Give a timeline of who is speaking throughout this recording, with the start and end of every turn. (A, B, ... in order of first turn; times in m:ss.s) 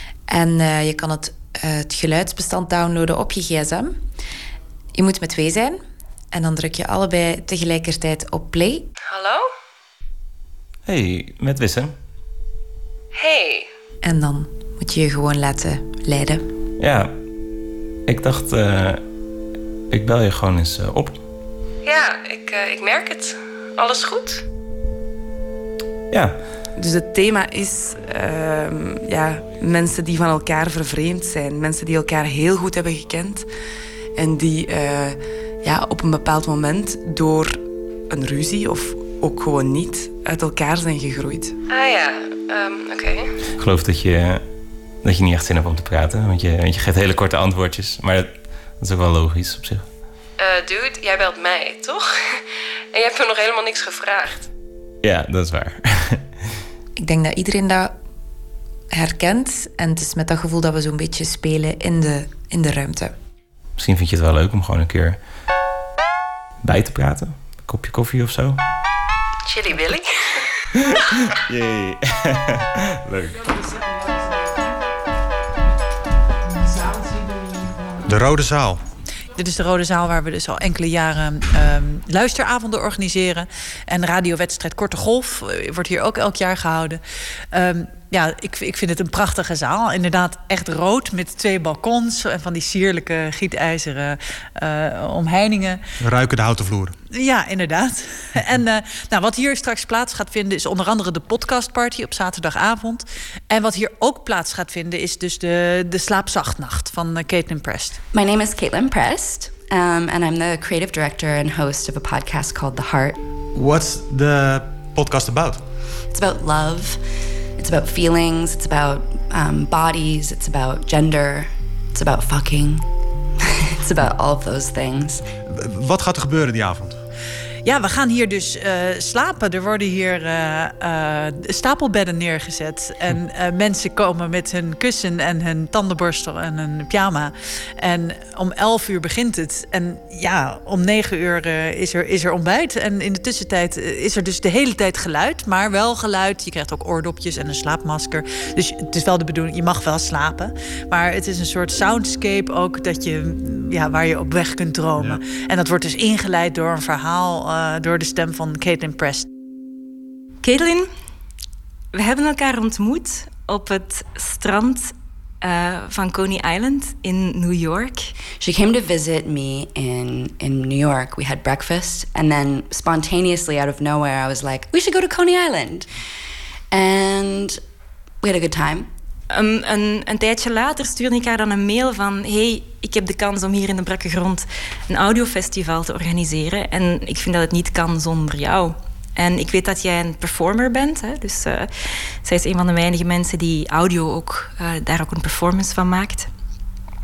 0:00.3-0:04.0 A
0:05.0-0:08.9 A
0:09.1-0:09.5 B
0:10.9-0:11.9 C
0:13.1-0:13.7 B
0:14.0-0:16.5 A
0:18.1-0:18.7 C
0:19.9-0:21.1 C
0:21.8-0:24.4 B
0:26.8-0:33.5 D
0:34.2-0:41.6 D
0:41.7-0:43.3 B
0:43.6-0:44.4 C
0:45.0-0:48.3 C
0:48.8-0:49.8 C
0:50.4-0:52.0 B
0:52.9-0:54.4 B
0:55.0-0:55.8 C
0:57.0-0:58.0 A
0:58.9-1:03.2 A
1:03.8-1:05.2 C
1:06.6-1:08.6 C
1:11.6-1:11.9 C
1:18.0-1:18.8 E
1:19.4-1:27.0 F
1:27.5-1:35.8 F
1:36.0-1:37.0 E
1:37.1-1:48.0 F
1:48.1-1:53.2 G
1:53.6-1:55.6 E
1:56.1-1:57.0 G
1:57.6-2:02.9 G
2:03.8-2:05.2 G
2:05.5-2:07.0 E
2:07.6-2:39.3 F
2:40.4-2:40.9 H
2:41.9-2:48.2 H
2:48.3-2:55.9 G
2:56.7-2:57.6 G
2:58.2-2:58.9 G
2:59.3-3:16.3 H